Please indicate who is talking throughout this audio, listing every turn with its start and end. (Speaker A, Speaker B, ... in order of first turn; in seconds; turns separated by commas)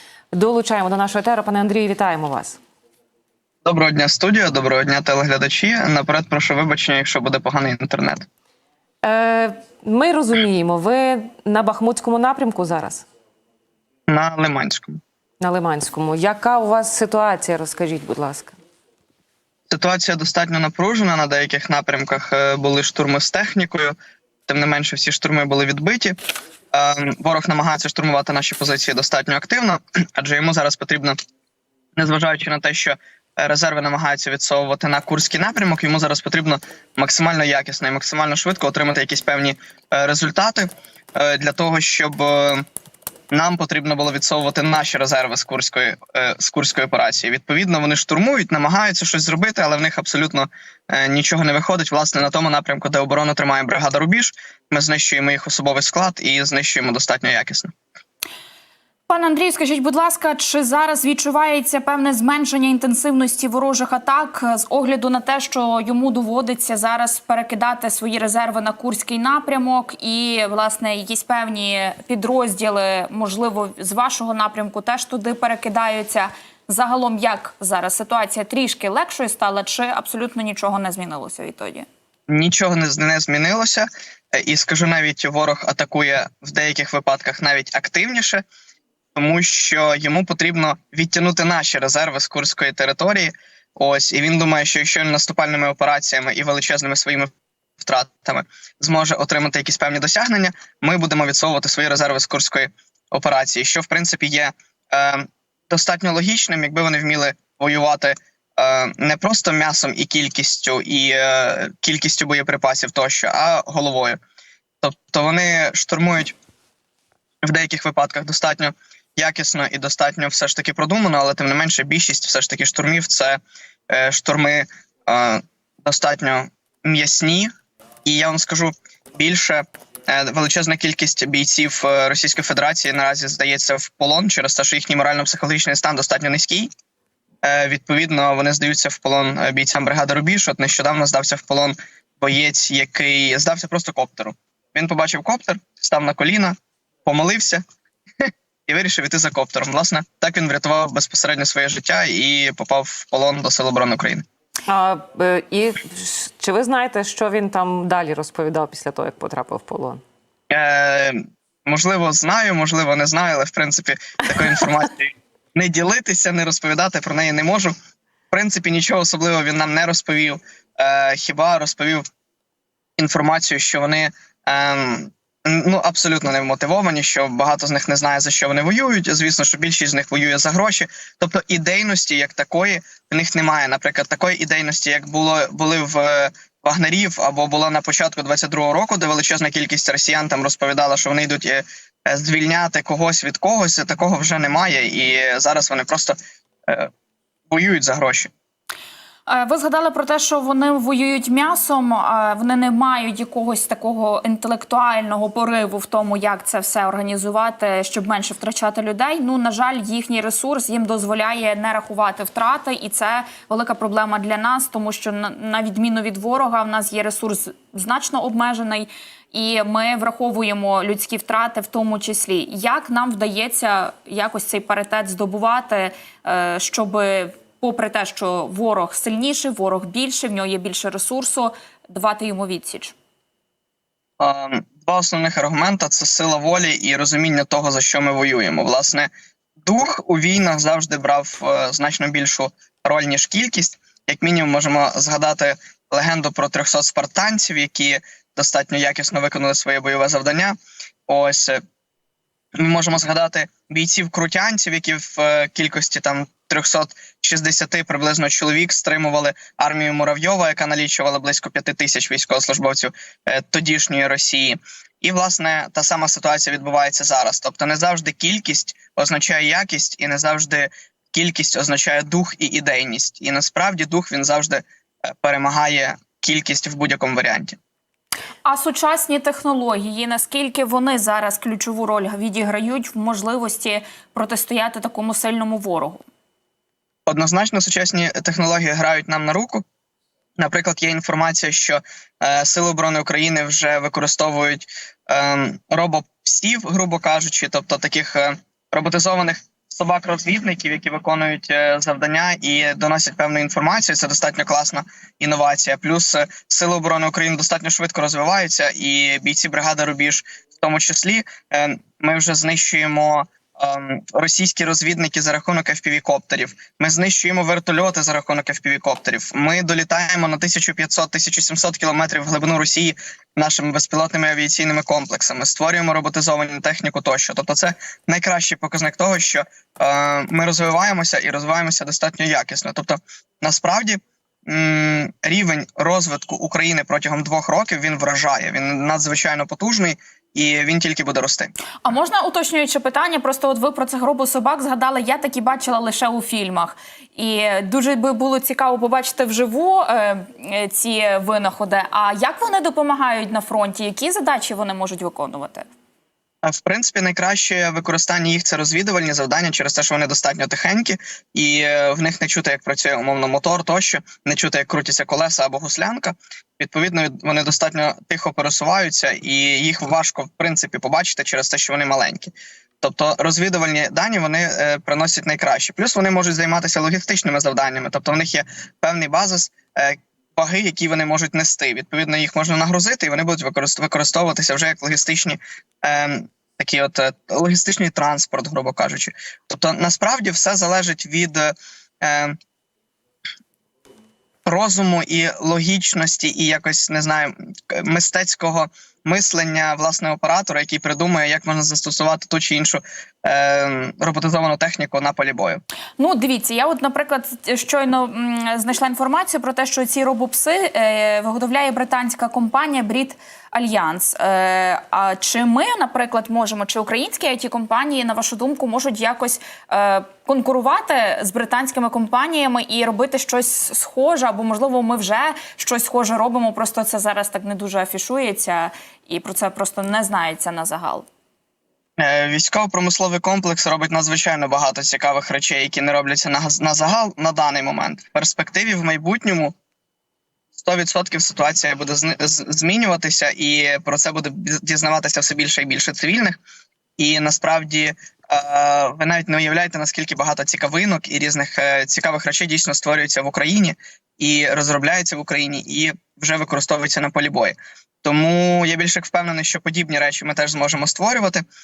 Speaker A: 0.3-2.6, Speaker B: 3.6-8.3, Speaker A: 9.0-13.1, Speaker B: 14.1-15.0, Speaker A: 15.4-18.6, Speaker B: 19.7-23.9, Speaker B: 24.5-26.2, Speaker B: 26.7-31.2, Speaker B: 32.0-42.6, Speaker B: 43.3-57.7, Speaker C: 59.1-81.9, Speaker B: 82.3-88.4, Speaker B: 89.1-114.2, Speaker B: 114.8-116.4, Speaker B: 117.4-127.5, Speaker B: 128.1-136.7, Speaker B: 137.4-147.6, Speaker B: 148.2-154.2, Speaker A: 154.7-160.0, Speaker B: 160.5-167.7, Speaker B: 168.3-172.0, Speaker B: 173.0-196.9, Speaker B: 197.5-198.3, Speaker C: 199.3-232.9, Speaker B: 234.2-239.1, Speaker B: 239.6-250.6, Speaker B: 251.1-251.6, Speaker B: 252.6-277.6, Speaker C: 278.4-286.1, Speaker B: 287.1-289.6, Speaker B: 290.4-341.5, Speaker C: 341.8-355.7, Speaker B: 356.4-392.4, Speaker B: 394.4-405.6, Speaker C: 406.0-431.1, Speaker B: 432.0-439.5, Speaker B: 440.6-446.4, Speaker B: 447.0-461.4